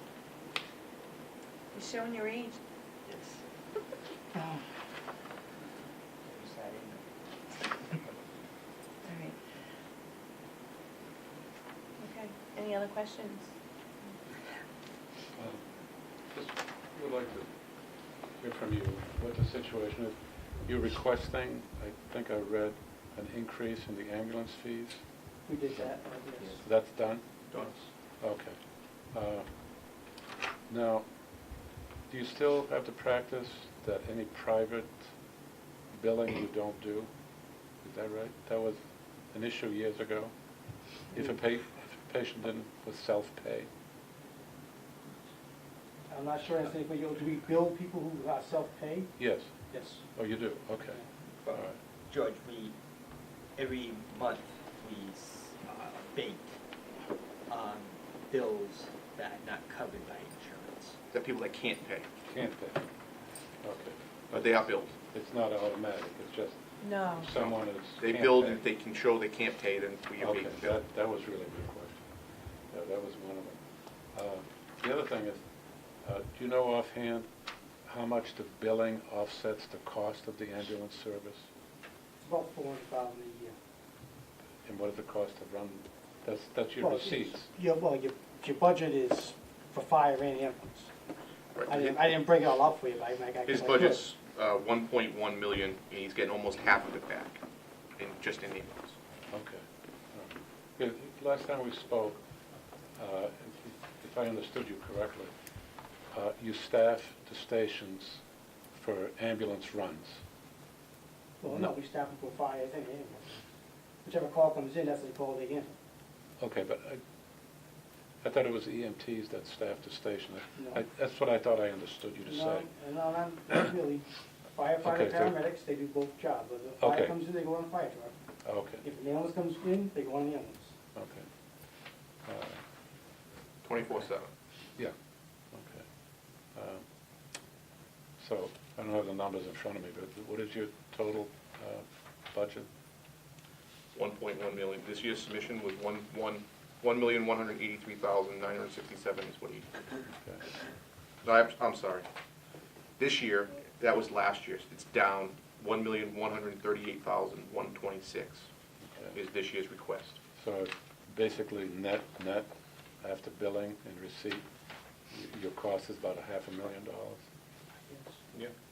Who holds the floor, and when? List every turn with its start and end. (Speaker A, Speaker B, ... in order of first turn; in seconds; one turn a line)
Speaker A: 1.7-2.6
Speaker B: 3.0-3.4
Speaker C: 4.3-4.6
Speaker B: 6.2-7.0
Speaker A: 9.0-9.3
Speaker A: 12.0-13.5
Speaker D: 15.4-15.6
Speaker D: 16.3-17.5
Speaker D: 18.4-25.0
Speaker C: 25.4-26.6
Speaker B: 25.7-26.6
Speaker D: 26.6-27.2
Speaker E: 27.5-27.9
Speaker D: 28.2-28.6
Speaker D: 29.1-29.5
Speaker D: 30.7-31.1
Speaker D: 32.1-35.1
Speaker D: 35.9-37.1
Speaker D: 37.8-38.8
Speaker D: 39.3-40.3
Speaker D: 41.1-43.7
Speaker C: 46.1-49.1
Speaker D: 49.2-49.5
Speaker C: 49.7-50.0
Speaker D: 50.1-51.0
Speaker B: 51.4-52.7
Speaker B: 53.5-56.5
Speaker B: 57.5-61.0
Speaker E: 61.1-62.1
Speaker D: 62.3-62.8
Speaker D: 63.6-68.6
Speaker E: 64.3-64.9
Speaker A: 66.8-67.3
Speaker E: 67.3-70.8
Speaker D: 70.2-72.0
Speaker D: 72.7-73.6
Speaker D: 74.1-75.4
Speaker D: 76.0-77.3
Speaker D: 77.8-81.5
Speaker C: 82.2-83.5
Speaker D: 84.7-87.5
Speaker C: 86.8-90.9
Speaker E: 91.5-92.1
Speaker C: 91.7-94.1
Speaker E: 93.5-97.4
Speaker E: 98.0-98.9
Speaker D: 99.3-102.2
Speaker D: 103.0-105.3
Speaker D: 106.1-108.2
Speaker D: 108.7-110.2
Speaker C: 111.4-113.4
Speaker C: 114.0-115.7
Speaker D: 116.4-117.0
Speaker D: 118.2-122.7
Speaker C: 122.2-128.1
Speaker D: 124.8-125.3
Speaker D: 126.8-127.1
Speaker D: 128.4-128.8
Speaker C: 128.8-130.7
Speaker D: 130.9-131.3
Speaker D: 132.2-132.6
Speaker E: 133.6-134.3
Speaker D: 135.5-135.8
Speaker D: 136.5-136.8
Speaker D: 138.2-142.7
Speaker E: 143.9-149.7
Speaker E: 151.2-152.1
Speaker E: 153.0-158.5
Speaker E: 159.1-160.2
Speaker D: 160.4-162.5
Speaker D: 163.0-164.4
Speaker D: 165.1-167.2
Speaker C: 167.9-168.2